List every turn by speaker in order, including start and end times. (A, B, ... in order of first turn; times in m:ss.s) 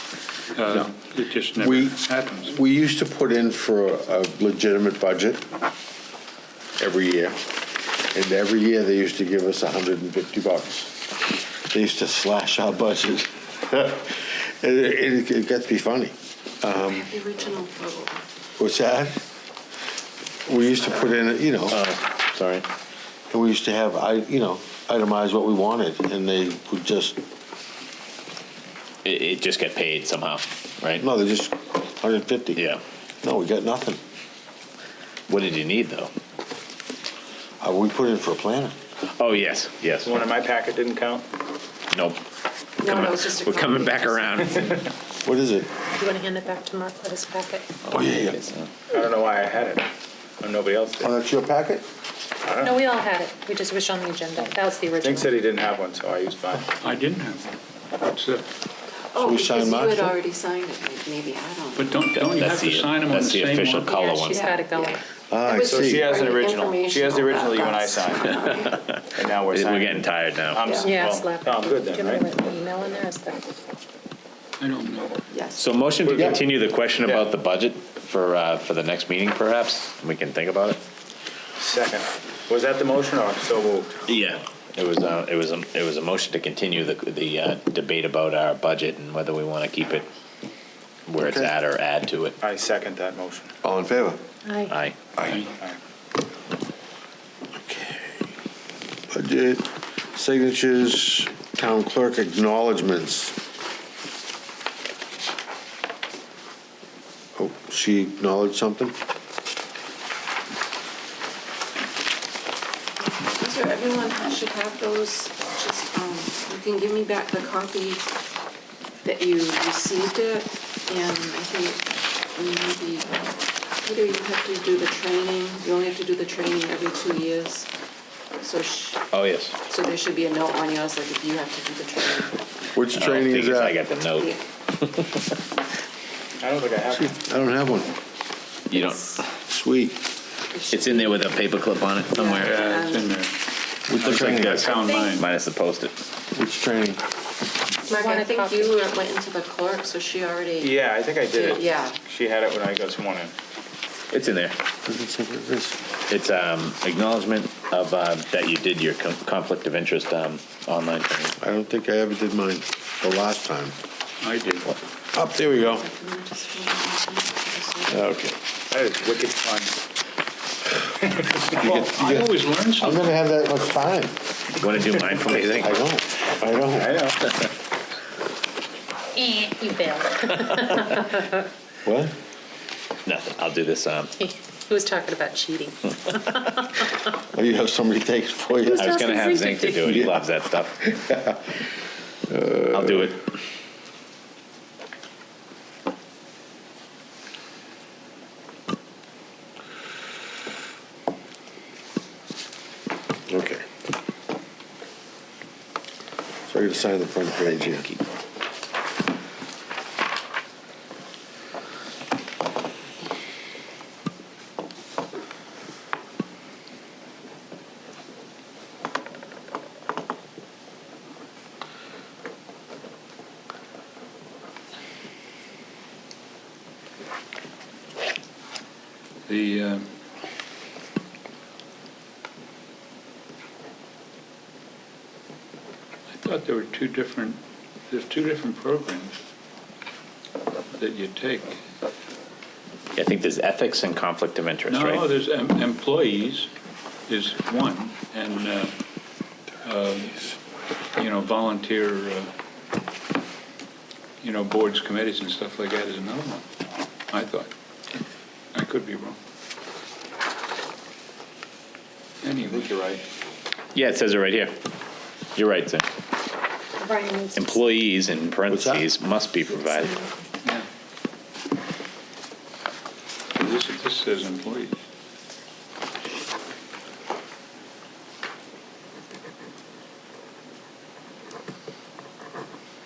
0:00.5-0:02.5 A
0:00.7-0:00.9 B
0:01.6-0:05.4 B
0:06.8-0:07.4 B
0:08.0-0:11.0 B
0:11.7-0:17.1 B
0:16.8-0:18.2 C
0:18.6-0:19.2 B
0:20.4-0:21.8 B
0:21.7-0:22.6 D
0:23.3-0:27.2 B
0:29.0-0:31.0 D
0:31.0-0:32.6 B
0:33.2-0:34.0 B
0:35.3-0:36.1 D
0:37.6-0:38.7 B
0:39.2-0:40.1 D
0:39.7-0:41.2 E
0:42.8-0:44.7 C
0:42.8-0:44.3 D
0:44.4-0:44.8 E
0:45.2-0:45.7 B
0:45.9-0:47.7 F
0:47.9-0:48.4 B
0:48.9-0:49.9 E
0:50.4-0:51.1 E
0:51.0-0:51.8 B
0:52.4-0:52.8 E
0:52.6-0:55.4 F
0:55.0-0:56.6 E
0:56.8-0:58.4 A
0:59.1-1:02.2 C
0:59.2-1:00.1 B
1:01.7-1:04.0 A
1:02.2-1:04.4 D
1:03.8-1:05.0 F
1:04.3-1:08.8 C
1:05.3-1:06.2 B
1:05.6-1:08.4 E
1:08.6-1:10.7 D
1:09.1-1:12.2 E
1:10.8-1:13.4 F
1:14.6-1:15.2 A
1:15.3-1:15.7 C
1:15.6-1:20.8 D
1:16.0-1:16.3 E
1:17.0-1:17.3 E
1:21.6-1:24.1 E
1:24.1-1:30.0 D
1:31.1-1:32.3 D
1:31.2-1:31.5 B
1:32.4-1:33.5 E
1:33.6-1:34.2 B
1:34.4-1:34.8 F
1:34.7-1:34.9 D
1:35.2-1:35.4 B
1:35.2-1:35.5 A
1:37.6-1:38.3 B
1:39.1-1:43.3 B
1:47.4-1:48.9 B
1:53.0-1:58.0 C
1:59.0-2:07.7 C
2:08.4-2:09.1 C
2:09.2-2:09.5 D
2:09.7-2:12.6 C
2:12.7-2:13.8 B
2:13.0-2:14.2 D
2:14.0-2:14.4 C
2:16.4-2:17.0 E
2:16.9-2:18.0 B
2:18.7-2:19.0 D
2:18.7-2:19.2 C
2:19.4-2:20.0 B
2:20.5-2:21.4 C
2:20.7-2:22.2 D
2:22.1-2:23.1 C
2:22.3-2:23.3 A
2:23.9-2:24.7 B
2:23.9-2:25.3 A
2:25.1-2:25.9 D
2:26.3-2:27.0 B
2:27.8-2:30.8 C
2:27.9-2:28.9 F
2:30.6-2:33.3 E
2:31.3-2:32.0 C
2:34.1-2:34.6 D
2:34.8-2:35.8 B
2:36.1-2:41.3 D
2:41.4-2:43.7 B
2:44.2-2:44.7 A
2:45.1-2:45.8 B
2:45.5-2:48.1 C
2:47.9-2:48.4 B
2:48.7-2:49.7 E
2:51.0-2:51.8 E
2:51.5-2:53.2 A
2:51.6-2:54.2 B
2:54.6-2:55.8 D
2:55.4-2:57.0 B
2:56.7-2:57.2 E
2:59.1-3:01.4 F
3:01.8-3:02.1 B
3:03.0-3:04.1 D
3:04.2-3:06.9 F
3:07.3-3:09.1 B
3:08.6-3:09.9 F
3:08.8-3:10.7 D
3:09.8-3:10.3 B
3:10.8-3:11.6 B
3:12.3-3:13.1 B
3:12.7-3:13.1 D
3:23.3-3:23.6 B
3:26.5-3:27.9 B
3:49.3-3:49.9 A
3:56.1-3:59.2 A
4:00.7-4:01.6 A
4:02.9-4:05.0 D
4:04.7-4:06.5 A
4:07.1-4:08.7 A
4:09.6-4:10.3 A
4:11.0-4:12.3 A
4:14.2-4:16.5 A
4:17.1-4:17.5 A
4:18.5-4:19.2 A
4:22.2-4:22.7 A
4:22.4-4:23.0 E
4:23.7-4:24.5 D
4:25.4-4:25.8 D
4:26.8-4:27.6 F
4:27.4-4:30.0 D
4:28.5-4:28.9 B
4:33.4-4:34.7 A